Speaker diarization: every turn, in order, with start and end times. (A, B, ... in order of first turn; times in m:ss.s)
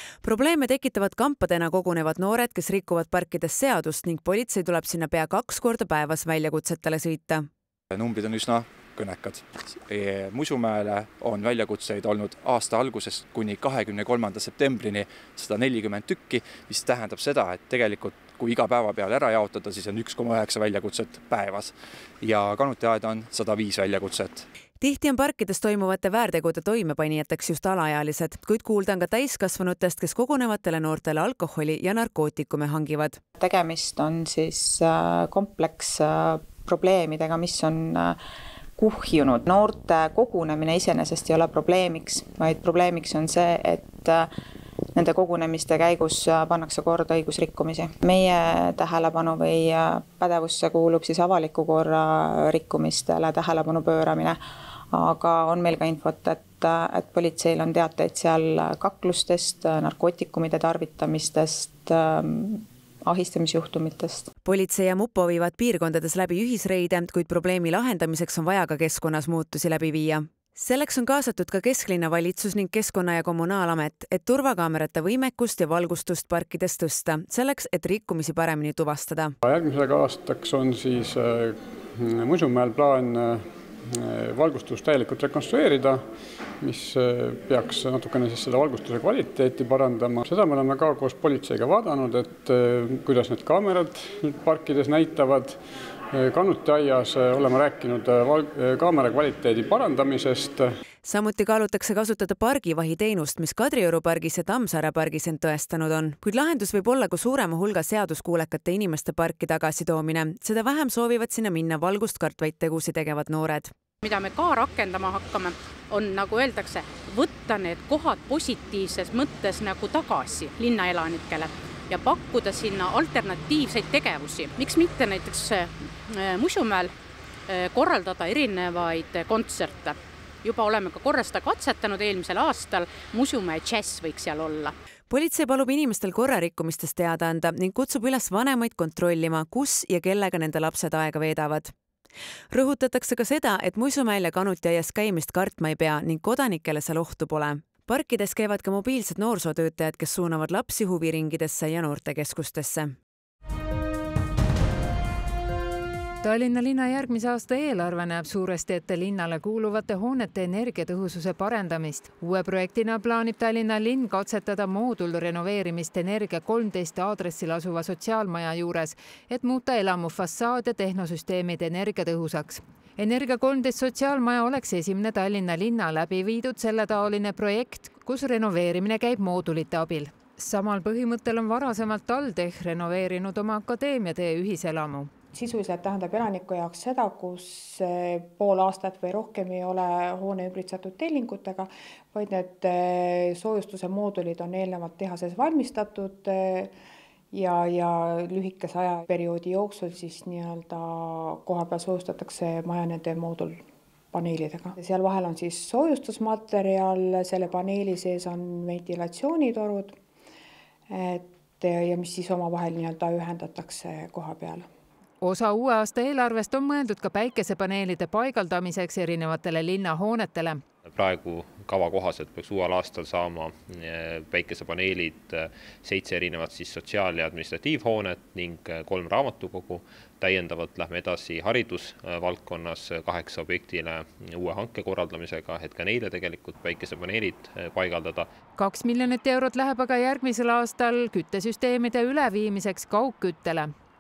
0:00.2-0:07.4 A
0:07.9-0:24.4 B
0:24.8-0:33.2 A
0:33.4-0:38.2 C
0:38.8-0:44.3 C
0:45.0-0:54.4 C
0:54.9-1:04.3 C
1:04.4-1:19.3 A
1:19.4-1:26.0 D
1:26.6-1:35.6 D
1:36.1-1:40.7 D
1:41.0-1:53.7 A
1:54.0-2:06.9 E
2:07.5-2:14.7 E
2:15.1-2:21.7 A
2:22.5-2:32.9 A
2:36.2-3:05.1 F
3:05.4-3:11.7 G
3:12.2-3:16.7 G
3:17.4-3:23.6 G
3:24.1-3:29.9 G
3:31.0-3:34.6 G
3:35.2-3:40.6 F
3:40.9-3:58.3 H
3:58.6-4:03.7 F